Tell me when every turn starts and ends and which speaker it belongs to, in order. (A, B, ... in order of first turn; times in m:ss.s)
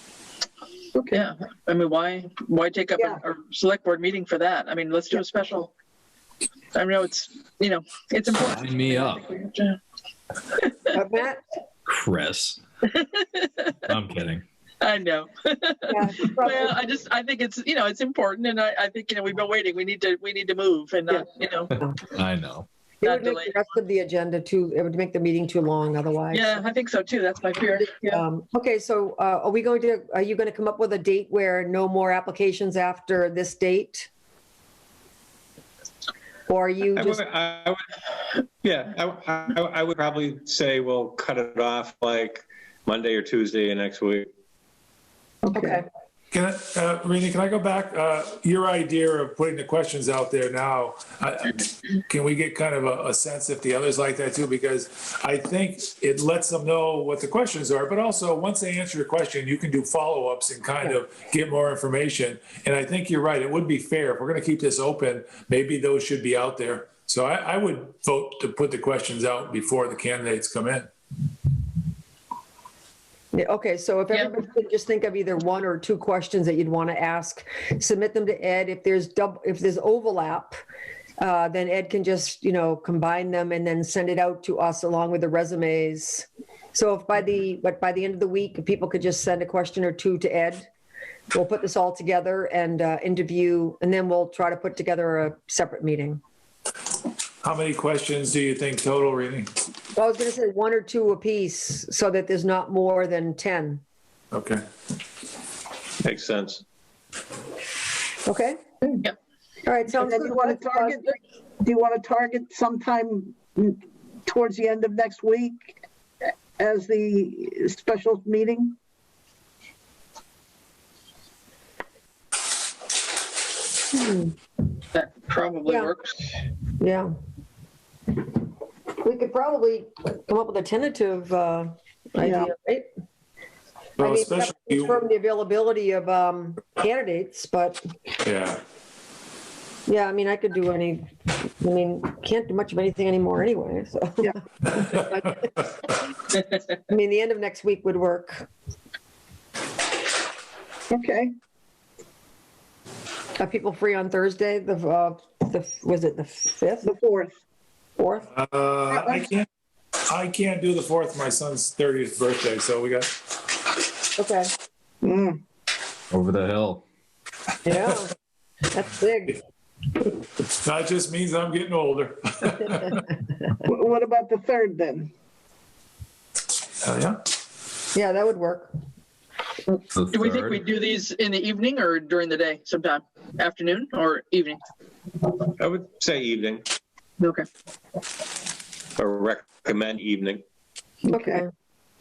0:00.9-0:01.2 A
0:01.1-0:05.7 B
0:06.7-0:09.8 B
0:08.5-0:09.2 C
0:10.9-0:11.4 D
0:11.9-0:12.6 C
0:12.9-0:13.7 B
0:13.9-0:14.4 C
0:14.8-0:21.7 B
0:15.9-0:16.8 D
0:22.1-0:22.7 C
0:23.0-0:26.6 D
0:23.0-0:23.5 B
0:26.3-0:28.2 B
0:27.8-0:34.1 D
0:36.5-0:37.2 D
0:37.0-0:37.8 E
0:38.6-0:44.3 E
0:45.4-0:45.8 A
0:45.5-0:45.8 D
0:46.3-1:10.9 F
1:13.3-1:20.5 D
1:21.2-1:30.7 D
1:31.3-1:36.2 D
1:37.4-1:39.5 F
1:39.9-1:43.8 D
1:44.3-1:44.6 F
1:46.0-1:46.6 E
1:48.2-1:48.6 D
1:49.6-1:51.1 D
1:49.9-1:55.7 A
1:56.6-1:58.7 A
2:03.9-2:04.3 D
2:04.9-2:06.4 B
2:05.6-2:05.9 D
2:06.8-2:07.1 D
2:09.0-2:12.8 D
2:12.2-2:12.5 A
2:14.0-2:15.0 F
2:14.0-2:17.8 D
2:18.2-2:18.6 F
2:19.9-2:25.7 D
2:26.7-2:28.5 D
2:30.9-2:31.3 A
2:33.4-2:36.9 D
2:36.8-2:37.3 A
2:38.0-2:38.3 D
2:38.3-2:39.5 F
2:38.9-2:39.3 A
2:40.1-2:43.1 F
2:44.2-2:44.5 D
2:45.0-2:45.4 A
2:46.1-2:46.8 C
2:47.6-2:48.1 D
2:48.7-2:49.4 D
2:50.6-2:53.0 F
2:53.6-2:55.1 A
2:56.8-2:57.2 F
2:57.9-2:58.7 D
2:59.9-3:00.6 C
3:00.1-3:04.6 B
3:05.6-3:06.6 E
3:09.0-3:10.4 E
3:11.1-3:11.4 A
3:11.1-3:11.5 D